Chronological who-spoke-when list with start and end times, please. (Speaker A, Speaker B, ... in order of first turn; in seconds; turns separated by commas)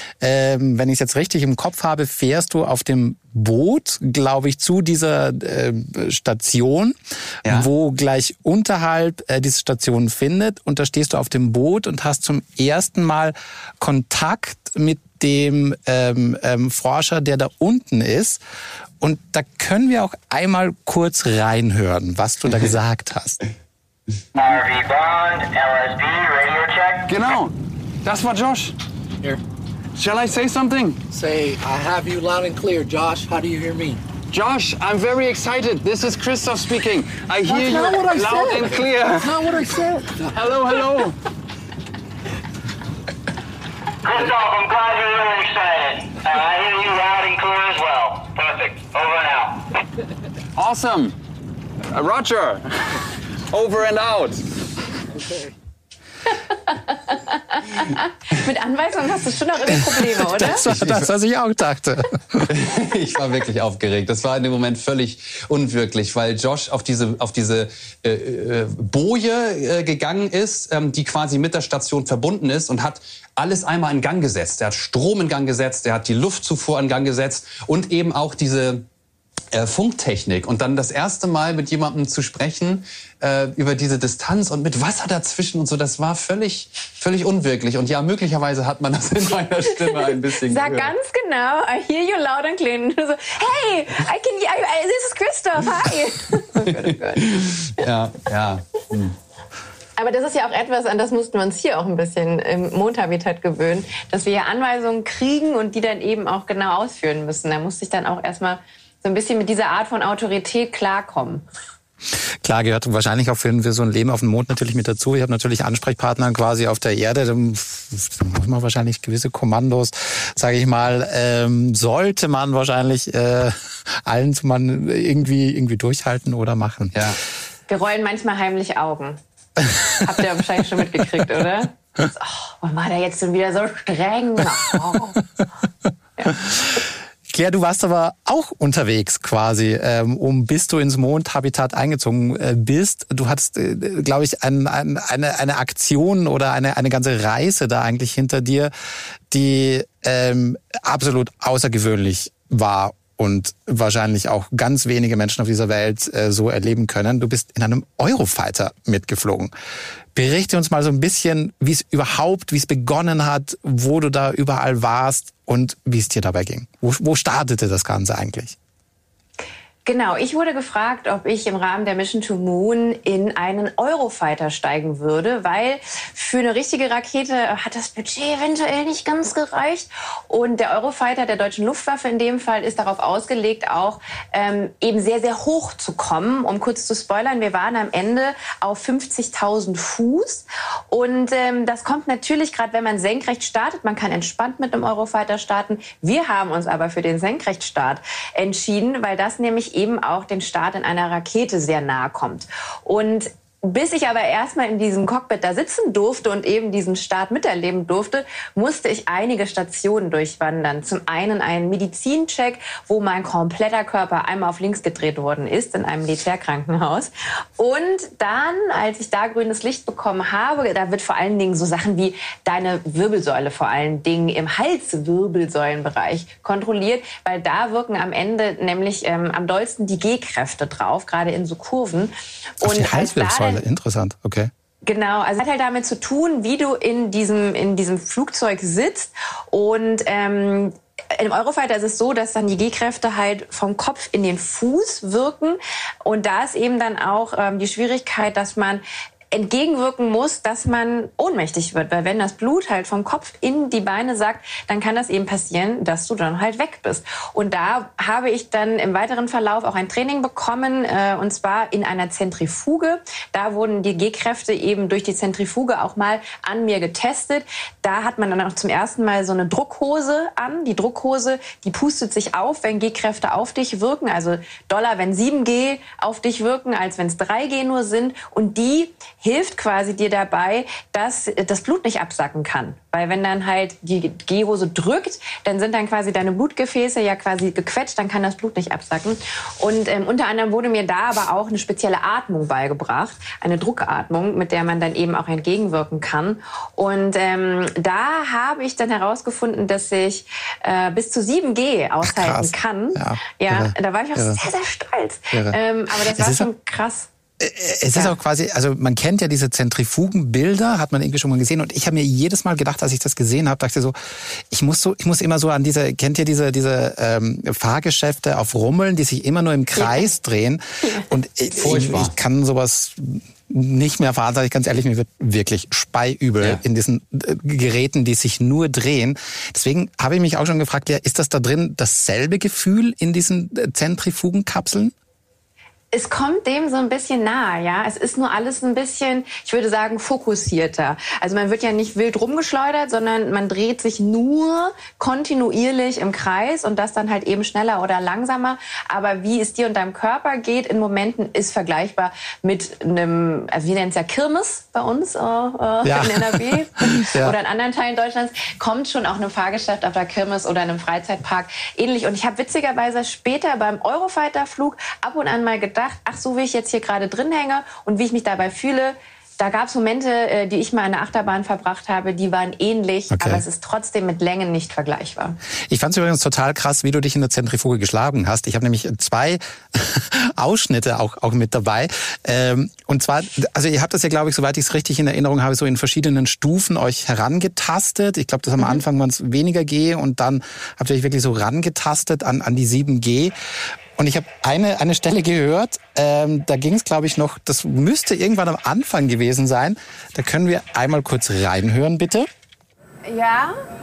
Speaker A: 0.2-18.4, Speaker A: 19.0-23.4, Speaker B: 24.6-26.6, Speaker C: 27.1-28.8, Speaker C: 29.9-31.0, Speaker D: 31.1-34.0, Speaker C: 34.3-39.6, Speaker D: 37.5-40.4, Speaker C: 40.3-41.1, Speaker B: 44.5-49.5, Speaker C: 50.5-51.1, Speaker C: 51.9-54.4, Speaker E: 56.3-60.6, Speaker A: 60.0-62.5, Speaker F: 60.6-61.1, Speaker F: 62.5-78.8, Speaker F: 79.5-90.9, Speaker E: 89.9-97.8, Speaker F: 96.5-99.2, Speaker E: 100.0-111.4, Speaker A: 112.4-127.0, Speaker F: 126.9-127.2, Speaker E: 127.7-129.2, Speaker A: 129.6-130.0, Speaker E: 130.0-135.2, Speaker A: 136.3-148.7, Speaker A: 149.3-159.5, Speaker A: 160.1-168.6, Speaker E: 169.8-233.6, Speaker A: 232.6-234.5, Speaker E: 234.8-307.1, Speaker A: 302.0-304.4, Speaker A: 305.3-306.5, Speaker A: 307.4-334.9, Speaker E: 319.8-320.1, Speaker F: 321.6-322.1, Speaker E: 335.9-375.4, Speaker A: 355.8-357.3, Speaker A: 373.1-373.4, Speaker A: 375.7-393.3, Speaker A: 394.0-402.3, Speaker E: 403.0-403.6